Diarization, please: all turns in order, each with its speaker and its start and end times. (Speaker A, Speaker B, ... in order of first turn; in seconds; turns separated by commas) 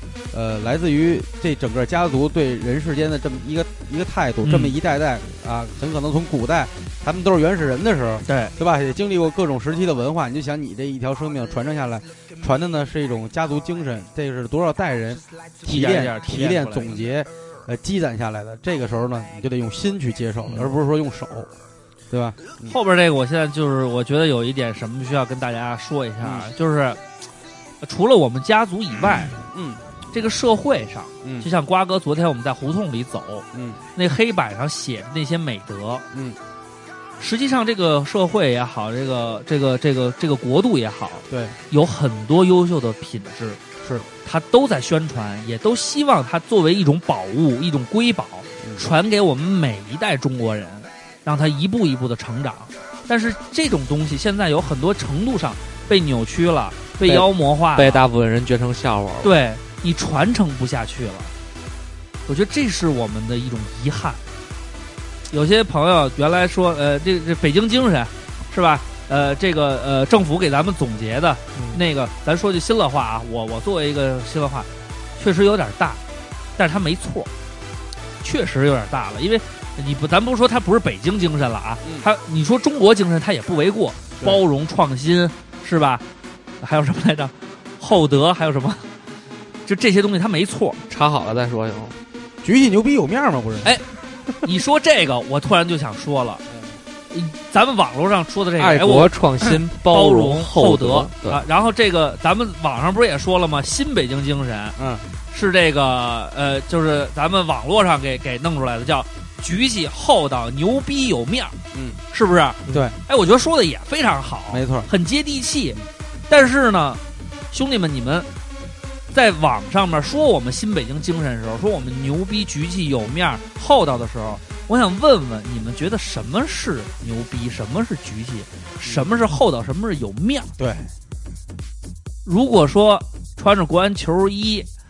Speaker A: 0.3-21.5, Speaker B: 4.4-4.7, Speaker B: 8.3-8.5, Speaker B: 15.6-17.0, Speaker B: 20.4-20.7, Speaker A: 22.1-22.7, Speaker B: 22.7-27.0, Speaker A: 26.2-26.5, Speaker B: 27.8-29.4, Speaker A: 29.2-29.8, Speaker B: 30.1-36.0, Speaker A: 31.2-31.5, Speaker A: 33.5-33.8, Speaker A: 36.1-36.4, Speaker B: 37.2-43.6, Speaker A: 41.3-41.6, Speaker A: 43.8-44.1, Speaker B: 44.2-58.0, Speaker C: 57.0-59.3, Speaker B: 59.2-61.3, Speaker B: 62.3-64.2, Speaker B: 65.3-76.0, Speaker C: 71.5-71.8, Speaker B: 76.6-77.3, Speaker B: 78.2-86.0, Speaker A: 81.8-82.1, Speaker B: 86.6-88.9, Speaker B: 89.6-90.8, Speaker C: 90.9-92.0, Speaker A: 92.4-93.7, Speaker B: 94.4-96.4, Speaker A: 96.5-96.8, Speaker B: 97.1-99.1, Speaker C: 98.6-101.4, Speaker B: 99.8-104.8, Speaker A: 104.8-105.1, Speaker B: 105.3-111.6, Speaker A: 111.7-112.0, Speaker B: 112.1-118.3, Speaker A: 112.7-113.0, Speaker A: 114.5-114.9, Speaker B: 119.1-130.5, Speaker A: 128.8-129.3, Speaker A: 130.6-130.9, Speaker B: 132.2-134.7